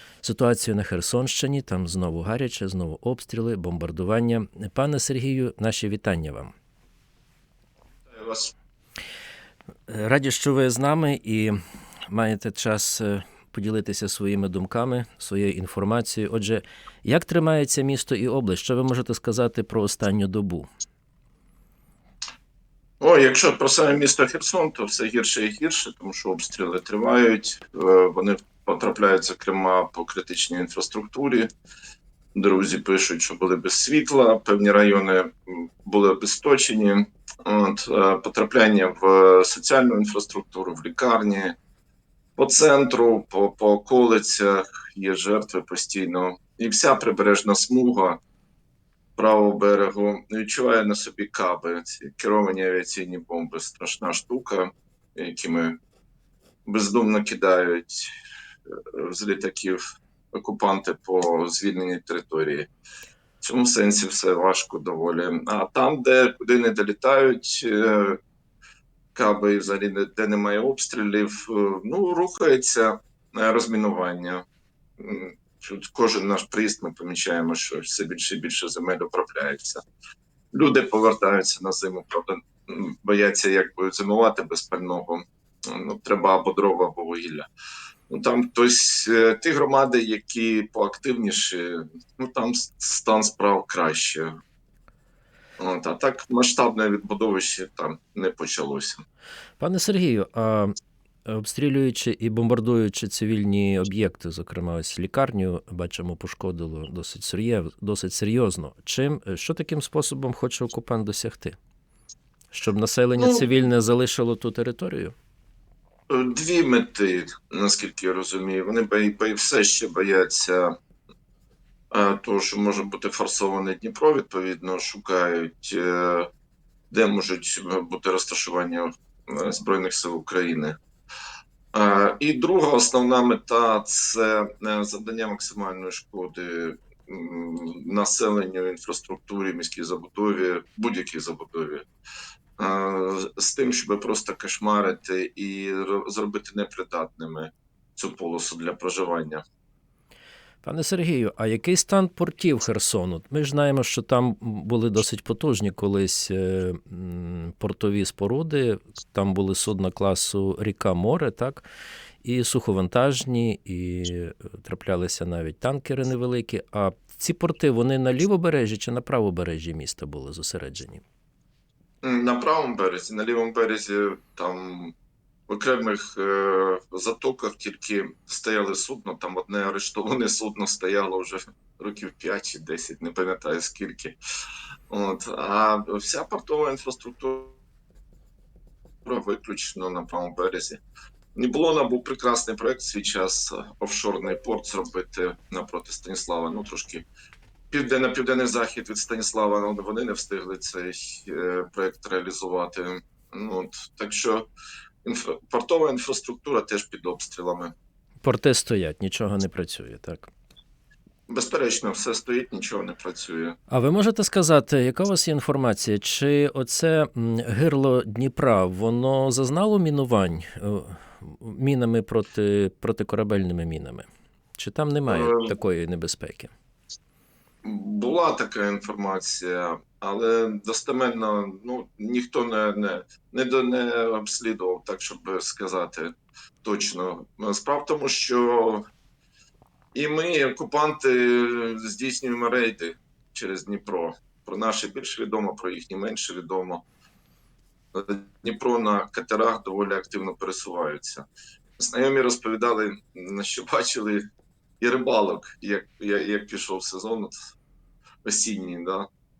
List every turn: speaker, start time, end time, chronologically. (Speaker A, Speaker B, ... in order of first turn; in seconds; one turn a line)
Speaker A: 0.2-6.5
Speaker B: 8.1-8.5
Speaker A: 9.9-11.6
Speaker A: 12.1-20.7
Speaker B: 23.0-31.5
Speaker B: 32.3-41.5
Speaker B: 42.4-48.2
Speaker B: 49.2-55.8
Speaker B: 56.6-58.1
Speaker B: 58.7-59.8
Speaker B: 60.3-62.7
Speaker B: 63.4-68.2
Speaker B: 69.1-74.4
Speaker B: 75.0-79.8
Speaker B: 80.5-87.5
Speaker B: 88.1-94.3
Speaker B: 95.6-99.0
Speaker A: 99.6-100.7
Speaker A: 101.2-111.6
Speaker A: 112.5-115.1
Speaker B: 113.2-113.4
Speaker B: 116.1-120.7
Speaker B: 121.9-126.3
Speaker B: 126.9-130.8
Speaker B: 131.7-141.8
Speaker B: 142.6-149.4
Speaker A: 150.6-161.7
Speaker A: 162.2-171.0
Speaker B: 172.0-174.9
Speaker B: 175.5-184.2
Speaker B: 184.9-187.6
Speaker B: 189.0-190.8
Speaker B: 191.3-197.0
Speaker B: 197.7-204.5
Speaker B: 205.0-207.7
Speaker A: 208.2-210.3
Speaker B: 211.3-213.6
Speaker A: 213.7-226.5
Speaker B: 225.1-225.5
Speaker B: 227.6-238.8
Speaker B: 239.9-246.8
Speaker B: 247.9-251.2
Speaker B: 251.8-254.2
Speaker B: 254.8-257.3
Speaker B: 258.2-259.1